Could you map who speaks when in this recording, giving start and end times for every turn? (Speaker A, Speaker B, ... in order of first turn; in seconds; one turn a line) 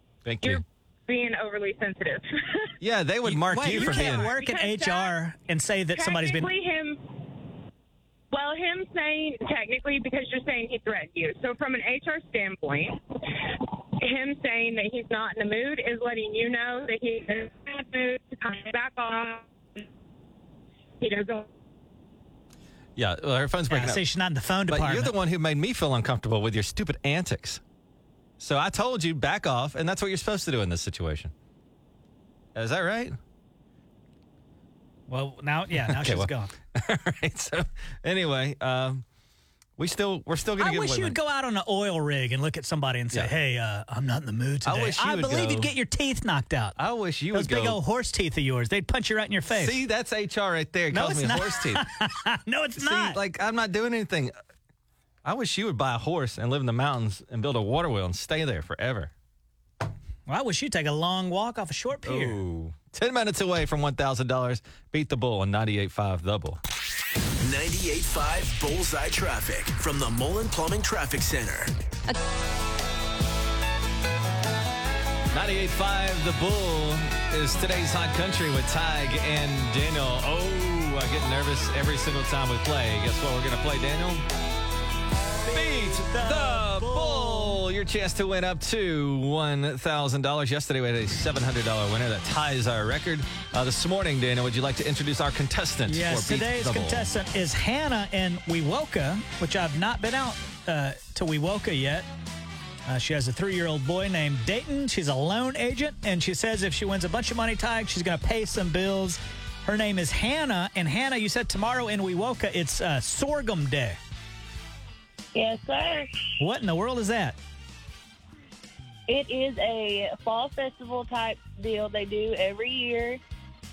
Speaker A: 0.2-0.6
Speaker B: 0.4-2.7
Speaker A: 2.8-4.3
Speaker C: 3.3-6.5
Speaker B: 3.7-5.2
Speaker B: 6.0-7.0
Speaker B: 8.3-13.0
Speaker B: 14.0-19.8
Speaker B: 21.0-21.5
Speaker A: 23.0-24.0
Speaker C: 23.7-25.1
Speaker A: 24.7-27.6
Speaker A: 28.4-31.3
Speaker A: 32.5-33.2
Speaker C: 35.1-36.5
Speaker A: 35.8-39.0
Speaker A: 39.8-41.2
Speaker C: 40.6-46.8
Speaker A: 44.6-45.7
Speaker A: 46.8-47.8
Speaker C: 47.3-49.8
Speaker A: 49.5-51.9
Speaker C: 50.9-53.2
Speaker A: 52.8-54.3
Speaker A: 55.2-59.1
Speaker C: 60.3-62.4
Speaker A: 62.0-66.6
Speaker D: 67.4-71.7
Speaker A: 75.3-84.2
Speaker C: 85.5-87.6
Speaker A: 85.5-97.1
Speaker C: 95.9-102.1
Speaker C: 102.9-114.0
Speaker E: 115.3-116.3
Speaker C: 116.4-117.4
Speaker E: 119.1-123.2